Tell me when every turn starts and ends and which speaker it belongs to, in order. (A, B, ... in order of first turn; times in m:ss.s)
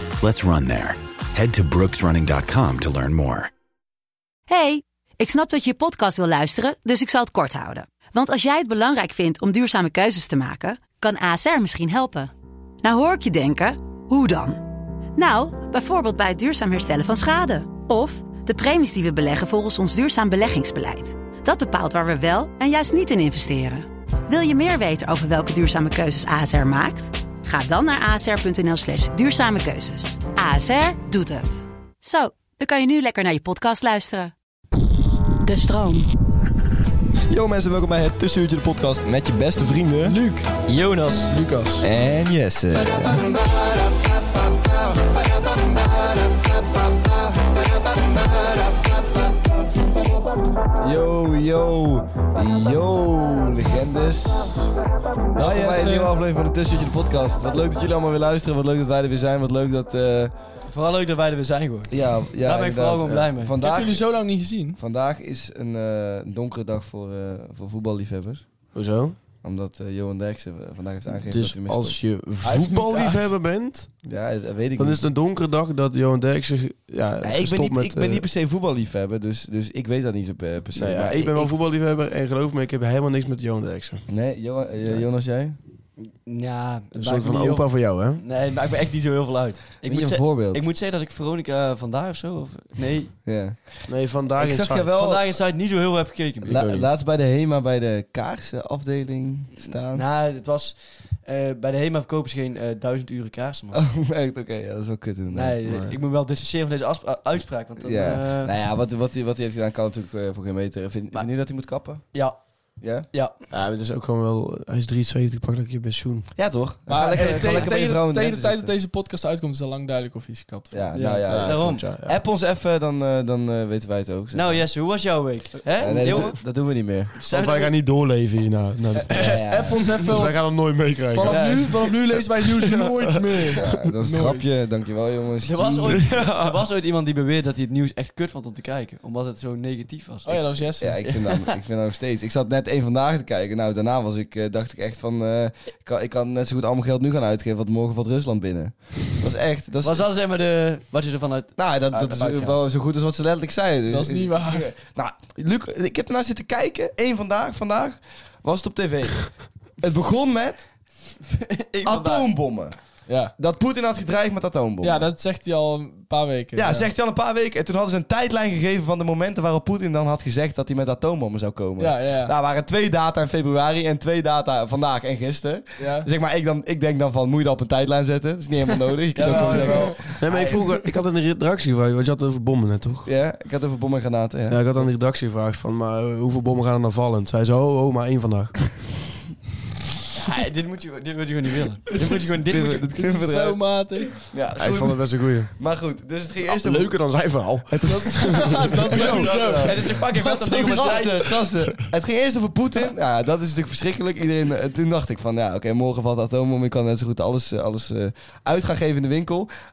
0:00.2-0:03.5 A
0:04.5-0:12.3 B
0:12.8-0:14.6 B
0:15.1-0:34.3 B
0:35.4-0:36.1 B
0:37.3-0:40.2 C
0:40.0-0:40.6 D
0:40.6-0:41.4 E
0:41.3-0:41.9 D
0:41.8-0:49.5 C
0:50.7-0:54.7 C
0:55.3-0:56.1 D
0:55.4-1:00.3 C
1:00.7-1:03.6 E
1:01.9-1:04.1 C
1:03.6-1:04.8 D
1:04.7-1:08.5 C
1:08.7-1:09.2 F
1:09.4-1:12.0 C
1:11.3-1:14.0 F
1:12.4-1:13.3 D
1:14.0-1:15.0 C
1:14.8-1:18.2 F
1:17.2-1:21.5 C
1:20.8-1:24.0 F
1:24.1-1:25.6 C
1:26.0-1:33.1 E
1:26.9-1:28.2 F
1:29.8-1:30.6 C
1:33.2-1:35.2 C
1:33.9-1:34.9 F
1:34.9-1:36.6 E
1:36.4-1:36.9 F
1:36.4-1:40.0 C
1:39.9-1:43.8 E
1:43.7-1:46.0 C
1:45.3-1:48.5 E
1:47.8-1:52.2 C
1:52.1-1:53.4 E
1:52.8-1:53.1 C
1:53.5-1:56.3 F
1:56.3-1:58.7 C
1:56.9-2:00.9 D
2:00.7-2:04.7 C
2:00.9-2:01.8 E
2:01.3-2:02.2 F
2:04.3-2:07.7 E
2:05.8-2:07.1 C
2:05.8-2:06.3 F
2:07.3-2:12.0 F
2:08.9-2:14.5 D
2:09.2-2:10.0 C
2:11.2-2:11.9 C
2:13.5-2:16.2 C
2:15.4-2:21.5 E
2:15.9-2:16.6 F
2:20.2-2:21.0 D
2:20.8-2:30.1 C
2:29.8-2:32.6 E
2:31.6-2:40.6 C
2:33.9-2:34.7 D
2:41.4-2:42.3 E
2:41.8-2:42.8 C
2:43.1-2:43.3 D
2:43.3-2:45.1 C
2:44.8-2:46.9 D
2:46.5-3:00.8 C
2:51.8-2:52.3 D
2:55.8-2:56.1 D
2:59.1-3:00.0 E
2:59.2-2:59.9 D
3:00.2-3:03.1 F
3:03.0-3:04.6 C
3:04.5-3:08.6 F
3:10.1-3:12.9 E
3:12.2-3:16.9 C
3:12.9-3:14.3 D
3:14.6-3:15.5 F
3:16.5-3:18.9 F
3:17.8-3:20.1 D
3:18.8-3:29.5 C
3:18.9-3:21.5 E